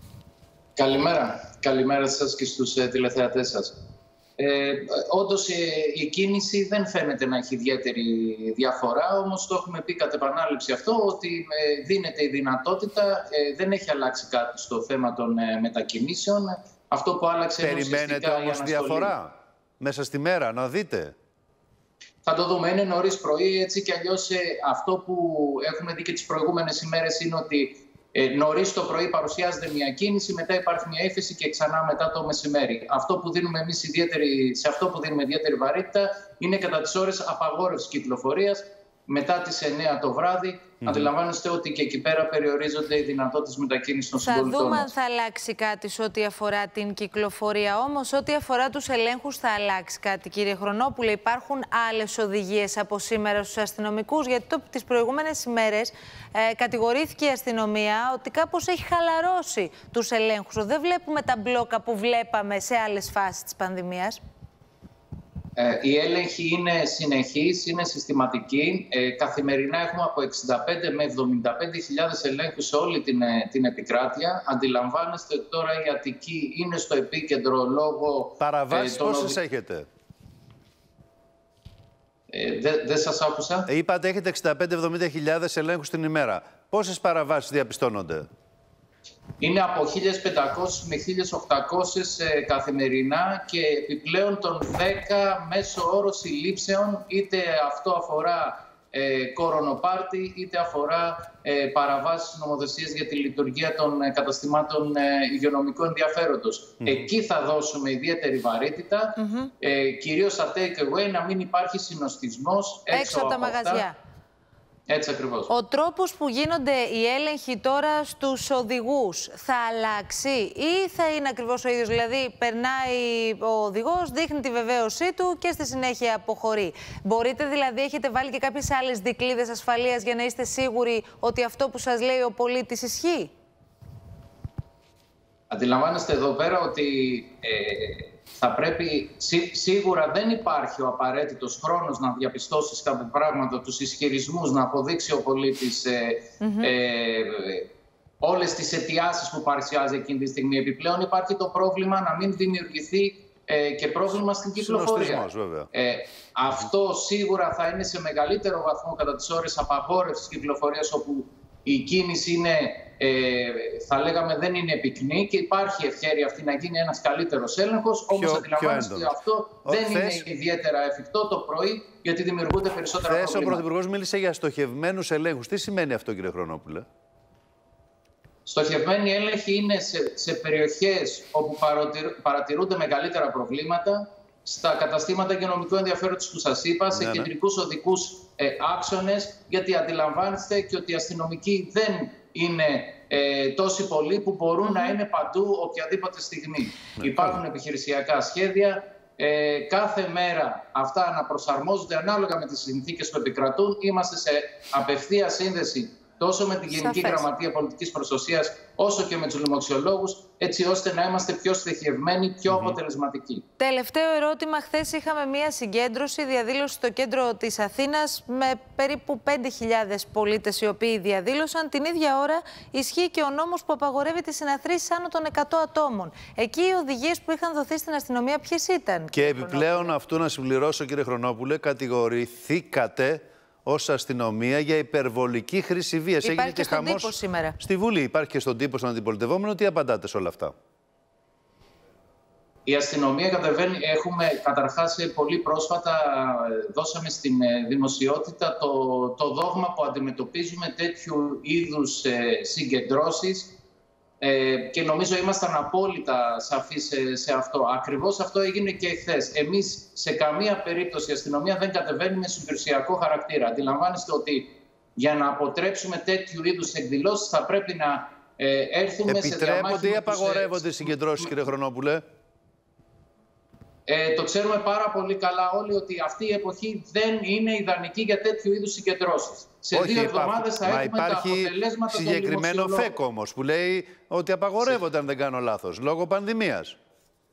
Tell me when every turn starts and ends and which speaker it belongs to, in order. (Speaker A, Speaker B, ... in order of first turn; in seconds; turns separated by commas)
Speaker A: 0.8-3.7, Speaker A: 4.4-19.1, Speaker B: 17.6-21.1, Speaker A: 22.2-44.9, Speaker B: 40.8-41.1, Speaker C: 44.2-64.2, Speaker A: 65.6-79.4, Speaker B: 78.4-79.9, Speaker A: 82.3-83.7, Speaker B: 83.7-88.3, Speaker A: 89.4-113.8, Speaker C: 109.2-109.5, Speaker C: 112.9-114.0, Speaker A: 114.9-115.5, Speaker C: 115.5-133.3, Speaker A: 135.5-147.7, Speaker C: 146.4-146.7, Speaker A: 148.2-173.6, Speaker B: 154.6-155.7, Speaker B: 168.1-170.2, Speaker B: 173.0-176.8, Speaker A: 178.4-213.4, Speaker B: 186.9-187.3, Speaker C: 194.6-194.9, Speaker B: 197.0-197.4, Speaker C: 206.7-207.3, Speaker B: 212.5-212.8, Speaker C: 213.6-229.9, Speaker B: 229.1-240.5, Speaker C: 236.2-237.6, Speaker A: 242.7-253.6, Speaker A: 254.2-271.3, Speaker B: 269.1-272.0, Speaker A: 273.9-283.0, Speaker B: 279.7-286.8